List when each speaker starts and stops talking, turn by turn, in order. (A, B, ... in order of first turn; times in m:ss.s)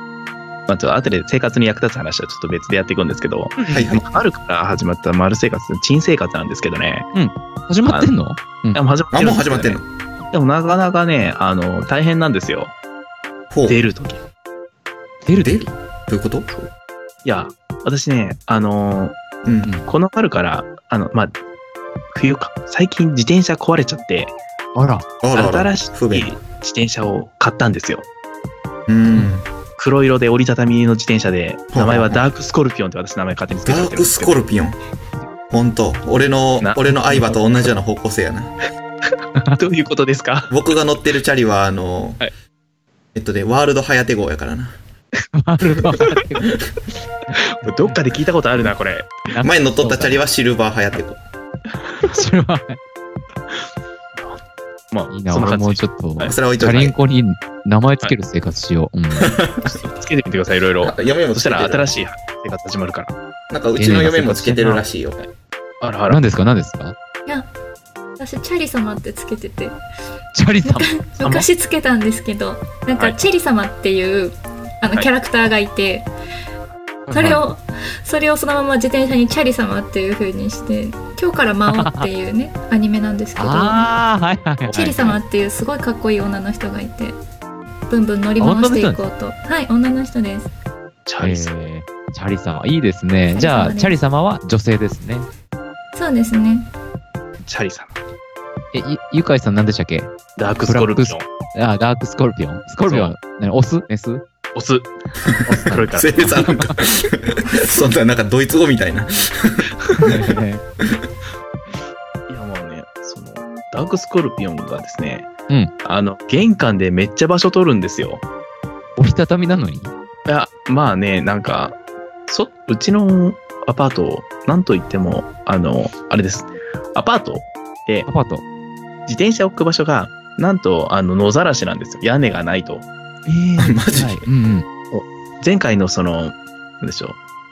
0:00.7-0:07.1 A
0:03.6-0:03.9 B
0:03.7-0:04.1 C
0:07.1-0:08.8 B
0:07.9-0:08.1 A
0:08.7-0:12.7 A
0:09.1-0:09.9 C
0:13.5-0:13.8 C
0:13.7-0:14.2 A
0:15.2-0:15.7 B
0:15.4-0:16.5 C
0:17.2-0:19.2 A
0:19.4-0:19.7 C
0:19.8-0:21.3 A
0:22.1-0:24.4 A
0:24.7-0:25.1 B
0:25.2-0:26.3 C
0:25.3-0:28.0 A
0:28.9-0:29.4 C
0:29.8-0:34.4 A
0:31.7-0:32.2 C
0:33.6-0:34.8 C
0:35.5-0:38.5 C
0:36.6-0:37.4 A
0:39.6-0:40.5 A
0:40.5-0:42.2 C
0:43.1-0:44.8 C
0:45.3-0:46.6 B
0:47.3-0:48.0 B
0:47.6-0:49.2 A
0:49.3-0:50.2 B
0:49.4-0:51.2 C
0:52.0-0:52.8 B
0:54.9-0:56.4 A
0:55.1-0:59.3 B
0:56.2-0:56.9 C
0:59.2-0:59.6 C
0:59.6-1:03.1 A
1:00.8-1:01.9 C
1:03.5-1:05.2 C
1:03.8-1:04.8 B
1:05.8-1:06.2 A
1:06.1-1:06.9 B
1:08.2-1:09.8 D
1:10.3-1:10.9 B
1:10.6-1:16.1 D
1:11.2-1:11.5 A
1:17.1-1:17.4 B
1:17.1-1:23.9 D
1:21.7-1:22.1 B
1:23.4-1:25.2 B
1:24.7-1:27.2 D
1:27.9-1:30.5 D
1:28.4-1:29.0 B
1:31.0-1:31.5 A
1:31.2-1:35.3 B
1:33.3-1:34.0 D
1:35.9-1:36.7 D
1:37.4-1:37.9 A
1:38.7-1:44.2 B
1:40.4-1:41.3 A
1:42.8-1:43.1 A
1:44.5-1:44.9 A
1:45.2-1:50.1 C
1:45.4-1:46.7 A
1:45.5-1:46.7 B
1:50.0-1:50.6 B
1:52.3-1:55.3 A
1:55.8-1:58.2 A
1:59.0-1:59.9 B
2:00.3-2:08.1 A
2:08.1-2:08.4 B
2:09.1-2:12.8 A
2:13.2-2:14.6 B
2:13.6-2:14.2 C
2:14.9-2:17.2 A